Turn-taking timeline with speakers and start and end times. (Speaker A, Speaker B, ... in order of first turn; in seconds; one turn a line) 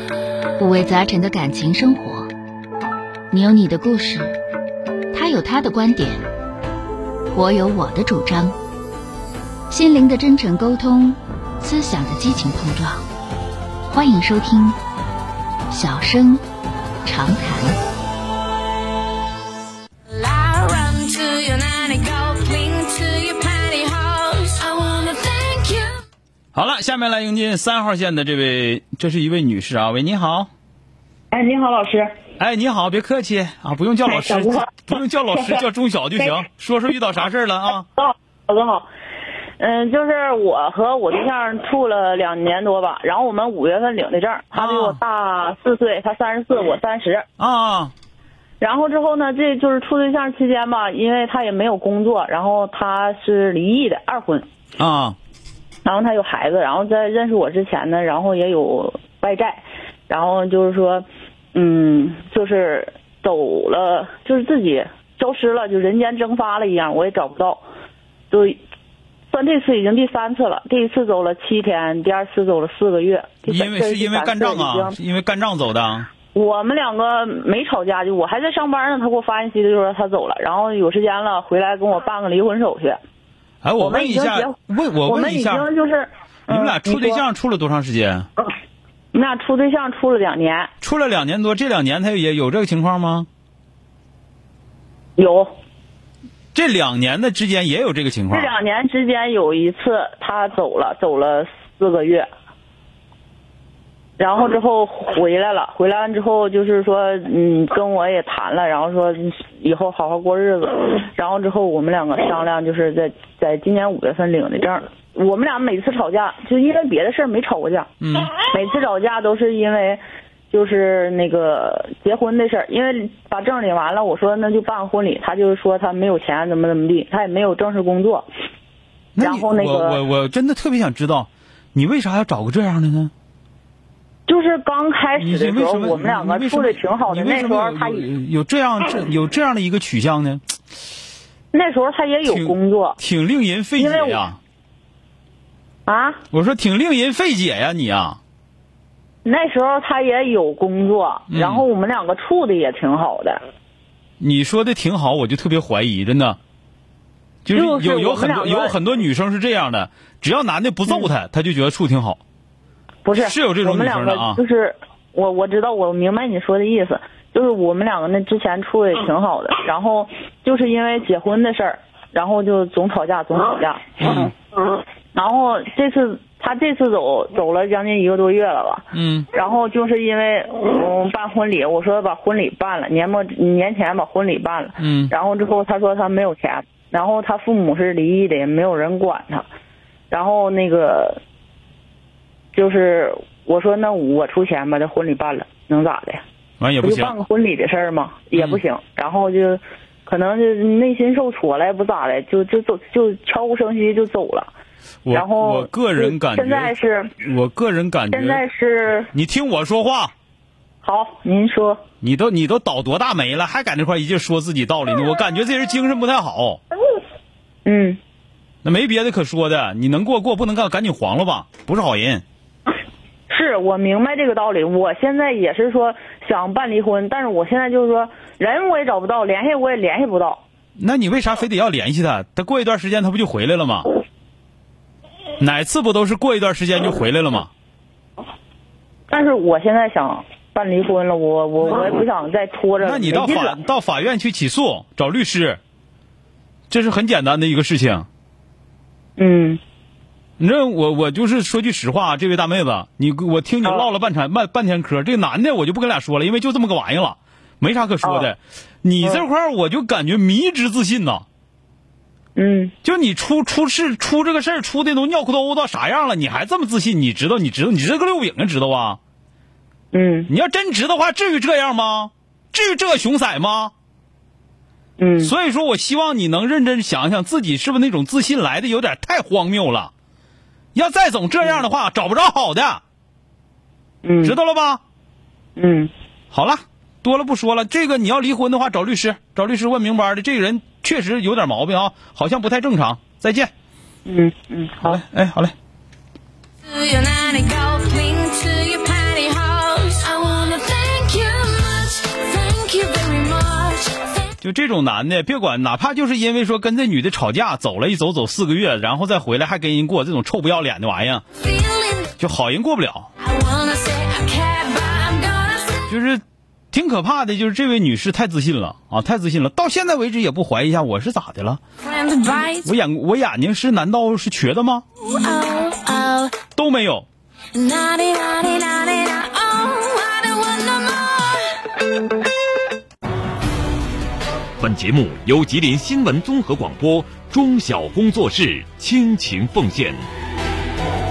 Speaker A: 0.6-2.3
Speaker A: 3.3-4.4
Speaker A: 5.1-6.3
Speaker A: 7.3-8.6
Speaker A: 9.7-13.0
Speaker A: 13.9-14.8
Speaker A: 15.7-16.4
Speaker A: 17.0-17.8
Speaker B: 20.1-25.9
Speaker C: 26.5-30.5
Speaker D: 31.3-32.1
Speaker C: 32.4-37.9
Speaker D: 34.1-34.7
Speaker D: 38.0-38.9
Speaker D: 39.6-47.2
Speaker C: 44.5-45.0
Speaker C: 47.4-47.9
Speaker D: 48.6-54.5
Speaker C: 54.8-55.2
Speaker D: 55.8-67.6
Speaker D: 68.3-68.6
Speaker D: 69.3-75.0
Speaker C: 73.5-76.1
Speaker D: 76.3-83.0
Speaker C: 83.6-85.7
Speaker D: 83.8-87.2
Speaker C: 86.5-88.3
Speaker D: 89.1-90.7
Speaker C: 90.8-93.3
Speaker D: 95.2-95.5
Speaker C: 96.5-98.5
Speaker D: 98.3-102.3
Speaker D: 104.2-128.2
Speaker C: 118.0-118.3
Speaker C: 129.1-133.1
Speaker D: 129.2-130.0
Speaker D: 134.3-138.1
Speaker C: 135.1-140.4
Speaker D: 141.5-143.0
Speaker C: 142.2-144.4
Speaker D: 143.8-144.2
Speaker D: 145.8-146.2
Speaker C: 146.3-148.2
Speaker D: 149.2-153.4
Speaker C: 151.3-151.7
Speaker C: 154.2-156.4
Speaker C: 157.4-162.2
Speaker D: 157.5-158.8
Speaker D: 163.0-174.2
Speaker C: 163.1-164.4
Speaker C: 174.0-174.3
Speaker D: 175.1-189.4
Speaker C: 178.9-179.3
Speaker C: 184.8-185.1
Speaker D: 190.1-191.2
Speaker D: 192.5-196.2
Speaker C: 196.6-197.1
Speaker D: 196.8-204.5
Speaker C: 198.3-198.6
Speaker C: 205.0-208.4
Speaker D: 205.1-207.1
Speaker D: 208.1-209.1
Speaker C: 209.1-210.1
Speaker D: 210.8-211.8
Speaker C: 212.0-216.6
Speaker D: 217.6-218.0
Speaker C: 218.6-222.2
Speaker D: 223.3-230.4
Speaker C: 230.8-233.9
Speaker C: 235.4-237.5
Speaker D: 239.1-243.6
Speaker C: 242.8-245.6
Speaker C: 246.7-248.1
Speaker D: 249.2-249.6
Speaker C: 250.4-261.2
Speaker D: 258.0-258.3
Speaker D: 262.4-262.7
Speaker C: 262.8-269.0
Speaker D: 269.9-270.3
Speaker C: 270.3-273.7
Speaker D: 275.0-275.3
Speaker C: 275.2-279.9
Speaker C: 280.7-282.8
Speaker D: 284.0-284.4
Speaker C: 284.2-284.8
Speaker D: 285.6-285.9
Speaker C: 286.3-293.5
Speaker D: 294.1-295.0
Speaker C: 294.8-295.5
Speaker B: 296.6-304.2
Speaker C: 304.4-311.2
Speaker B: 311.6-312.1
Speaker C: 312.2-313.1
Speaker B: 313.2-315.8
Speaker C: 315.9-321.6
Speaker B: 321.9-322.6
Speaker C: 322.6-324.8
Speaker B: 325.1-326.4
Speaker C: 326.6-327.1
Speaker B: 327.5-331.5
Speaker E: 334.6-340.0